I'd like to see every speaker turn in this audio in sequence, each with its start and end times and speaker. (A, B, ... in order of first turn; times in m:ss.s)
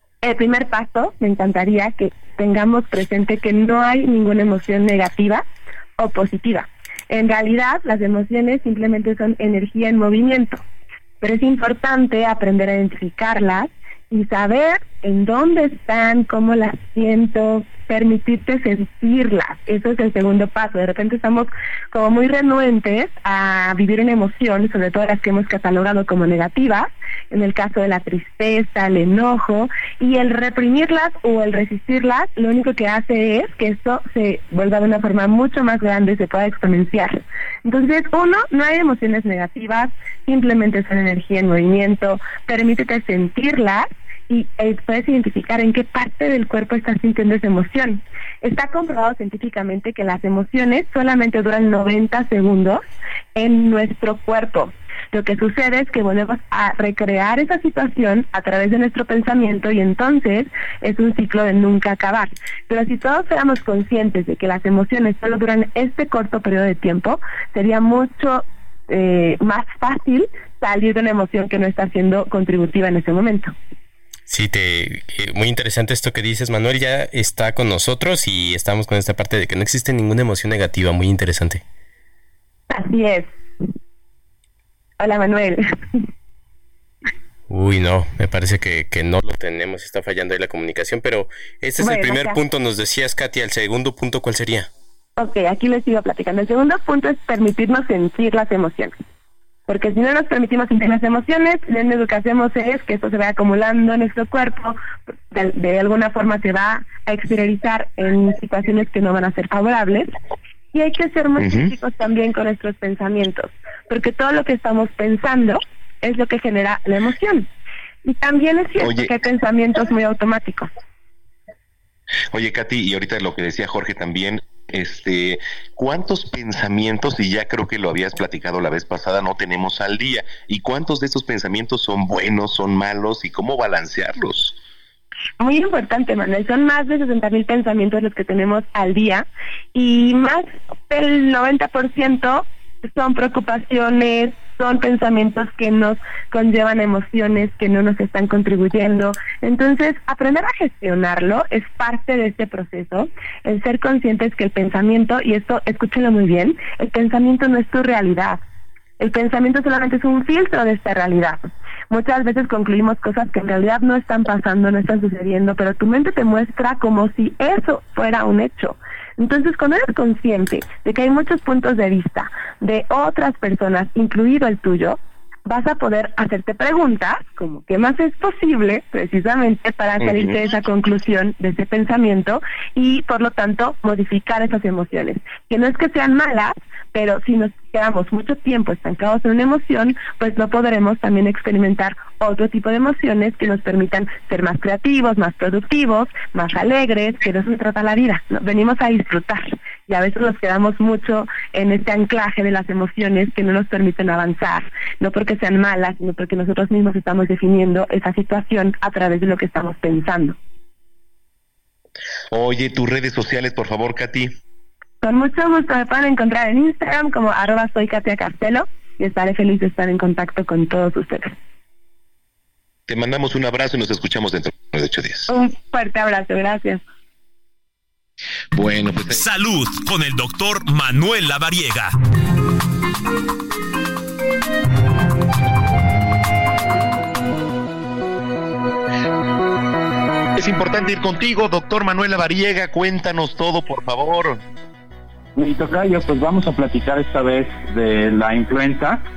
0:00.2-0:05.4 A
0:06.0-0:10.6 A
0:11.2-0:52.8 A
0:53.3-1:13.5 A
1:14.3-1:21.6 B
1:22.7-1:23.3 A
1:25.0-1:25.6 A
1:27.5-1:34.7 B
1:31.8-1:32.4 A
1:35.2-1:38.9 A
1:39.7-1:44.8 A
1:45.3-1:50.1 A
1:50.7-1:57.5 A
1:51.4-1:51.7 C
1:58.0-2:00.7 A
1:58.8-1:59.1 C
2:02.3-2:14.6 C
2:15.4-2:38.4 A
2:39.0-3:30.4 A
3:00.0-3:00.4 C
3:32.3-3:34.3 C
3:35.0-3:41.3 A
3:42.9-3:45.3 C
3:45.3-3:46.8 A
3:48.5-3:49.2 C
3:49.1-3:51.9 D
4:00.4-4:04.4 C
4:05.4-4:09.0 E